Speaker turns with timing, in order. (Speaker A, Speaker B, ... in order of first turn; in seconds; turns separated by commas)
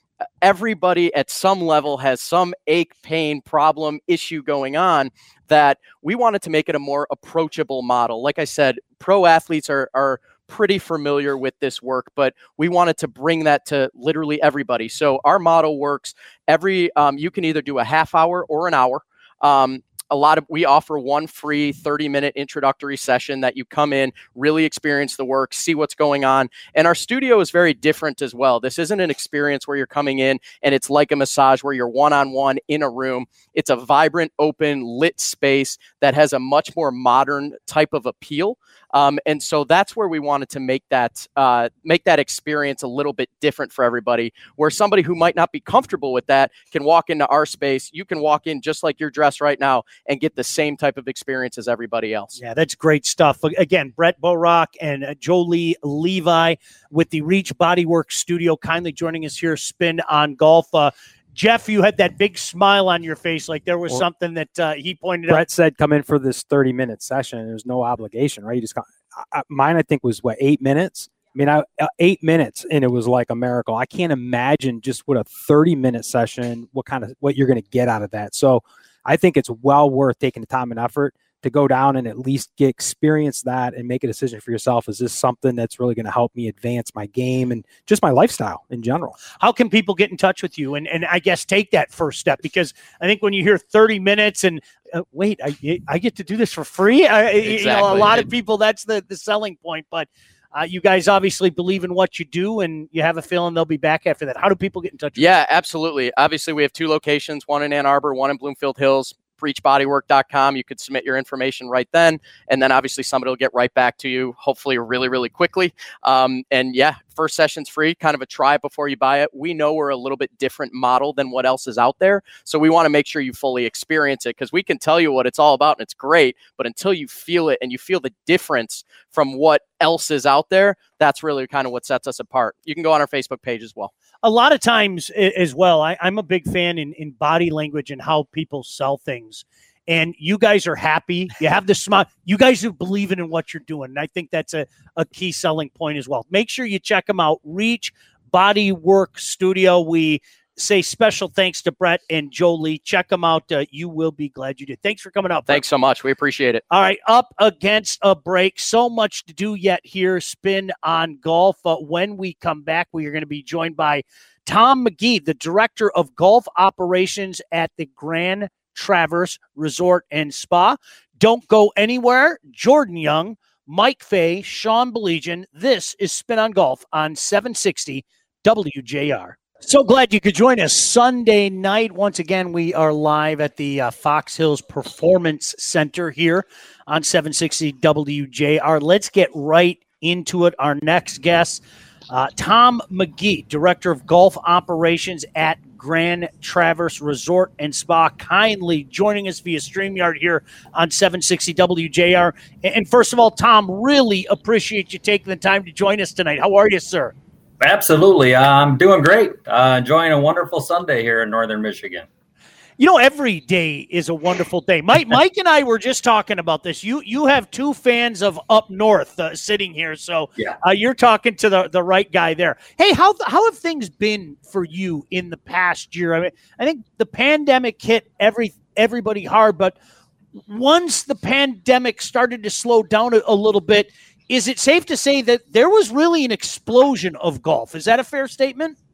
Speaker A: 0.4-52.4, Speaker B: 52.4-65.5, Speaker C: 65.3-89.2, Speaker B: 89.4-105.3, Speaker A: 97.4-98.2, Speaker A: 105.2-133.9, Speaker B: 134.2-155.6, Speaker A: 155.5-156.6, Speaker B: 156.7-207.1, Speaker D: 207.6-212.1, Speaker B: 212.8-229.7, Speaker B: 230.5-238.8